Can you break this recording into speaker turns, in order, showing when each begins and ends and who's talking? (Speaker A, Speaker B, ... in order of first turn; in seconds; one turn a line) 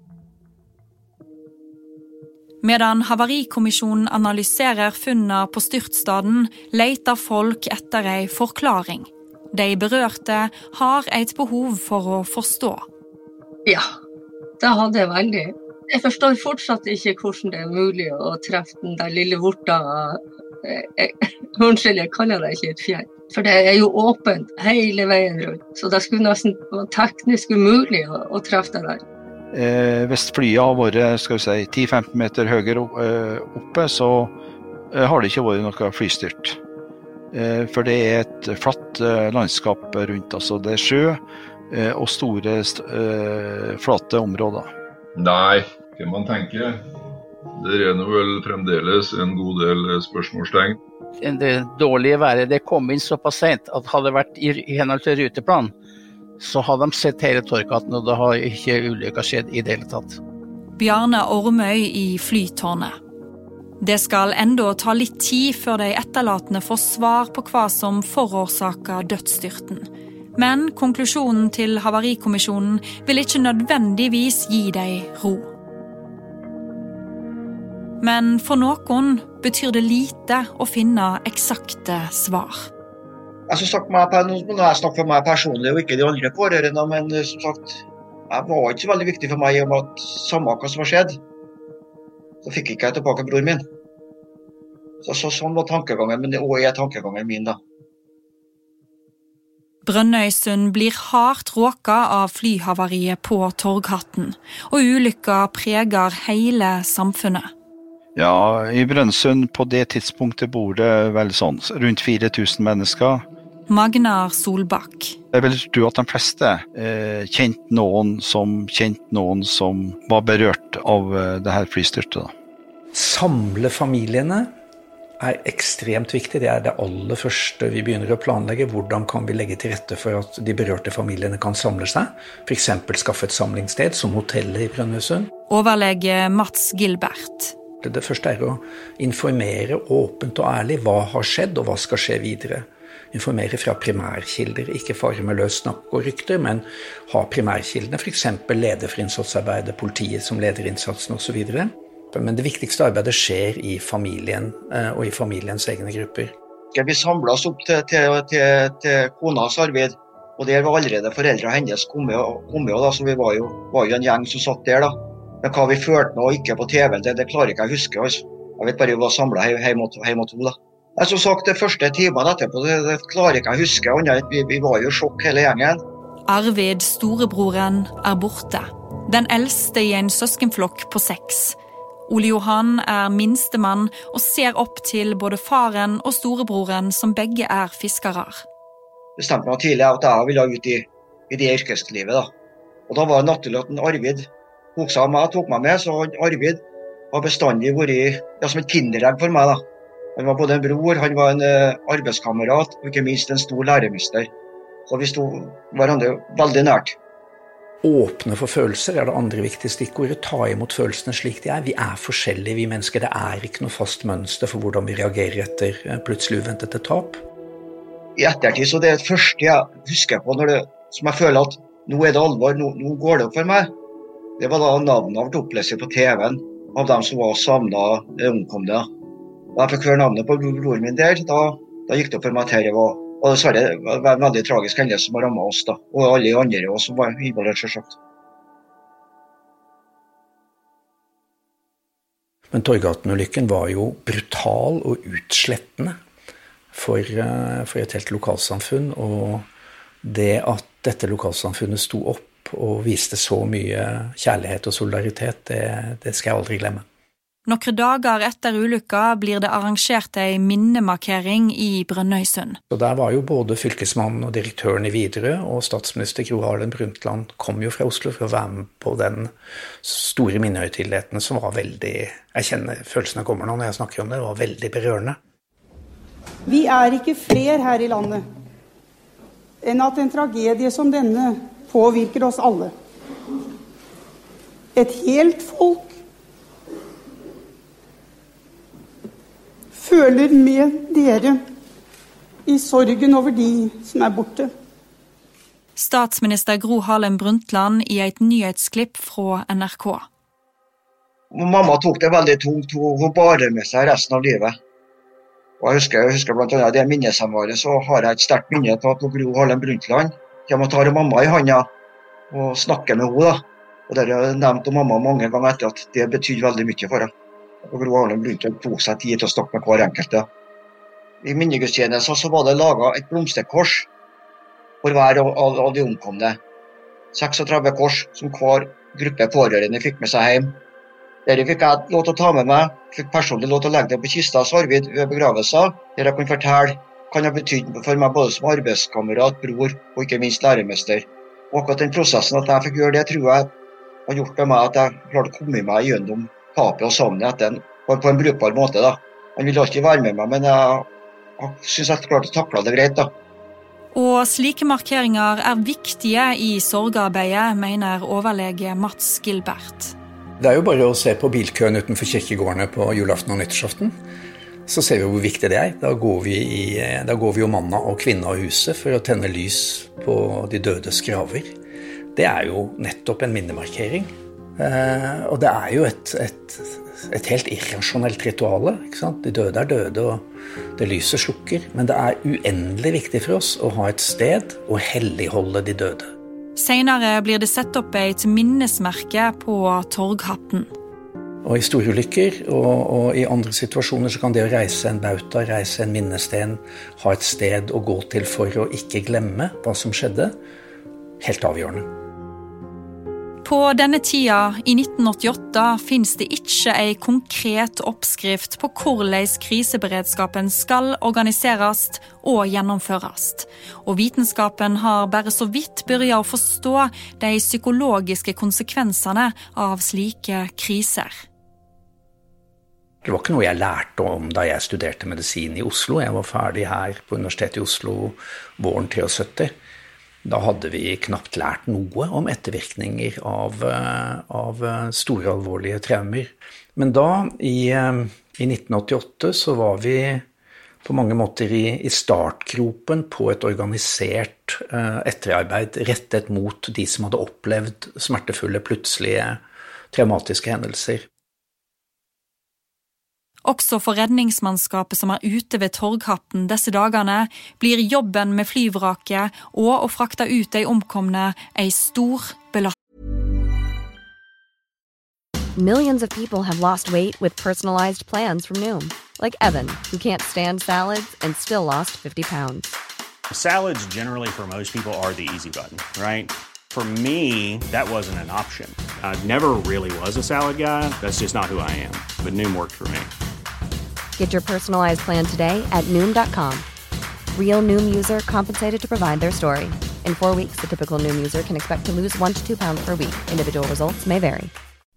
Speaker A: 2.6-12.8
Speaker B: 13.7-13.9
Speaker B: 14.6-29.0
Speaker C: 29.5-34.3
Speaker C: 34.9-36.6
Speaker C: 37.3-44.7
Speaker D: 45.1-46.9
Speaker D: 47.5-50.8
Speaker E: 51.2-55.7
Speaker E: 56.4-60.2
Speaker A: 60.8-63.0
Speaker A: 63.8-75.5
Speaker A: 78.0-82.7
Speaker F: 83.5-91.2
Speaker F: 92.4-93.6
Speaker F: 95.0-97.6
Speaker A: 99.8-107.5
Speaker C: 108.2-113.2
Speaker A: 113.7-115.2
Speaker C: 115.3-122.3
Speaker G: 122.9-124.5
Speaker G: 125.2-135.3
Speaker A: 135.5-137.5
Speaker G: 137.8-156.3
Speaker F: 156.7-175.8
Speaker A: 176.3-181.6
Speaker A: 182.1-188.4
Speaker F: 189.2-192.3
Speaker F: 192.9-196.6
Speaker F: 197.1-199.6
Speaker F: 200.2-204.3
Speaker F: 204.9-206.9
Speaker G: 207.8-217.2
Speaker F: 218.2-223.7
Speaker F: 224.4-228.9
Speaker F: 229.5-237.9
Speaker G: 242.5-246.0
Speaker G: 246.7-249.5
Speaker G: 250.0-256.8
Speaker A: 257.4-262.6
Speaker G: 262.7-269.3
Speaker G: 269.8-275.2
Speaker H: 276.4-278.2
Speaker H: 279.6-282.7
Speaker H: 284.7-286.0
Speaker H: 289.7-291.4
Speaker H: 292.5-294.5
Speaker A: 295.8-300.1
Speaker F: 301.3-304.6
Speaker F: 305.6-311.7
Speaker F: 312.3-317.1
Speaker F: 317.6-320.3
Speaker F: 321.2-323.9
Speaker F: 324.8-326.4
Speaker F: 327.1-330.6
Speaker F: 331.2-343.5
Speaker F: 344.1-350.9
Speaker F: 351.4-353.1
Speaker A: 353.9-359.9
Speaker G: 360.4-363.9
Speaker G: 364.6-371.5
Speaker G: 372.1-380.2
Speaker G: 380.8-386.1
Speaker A: 386.6-390.7
Speaker G: 391.4-400.4
Speaker G: 401.2-401.9
Speaker A: 403.4-421.2
Speaker G: 423.0-429.5
Speaker G: 430.2-440.2
Speaker G: 440.8-449.4
Speaker G: 449.9-451.1
Speaker A: 453.4-462.7
Speaker I: 465.6-472.8
Speaker J: 473.3-483.1
Speaker I: 484.2-486.6
Speaker I: 487.3-494.5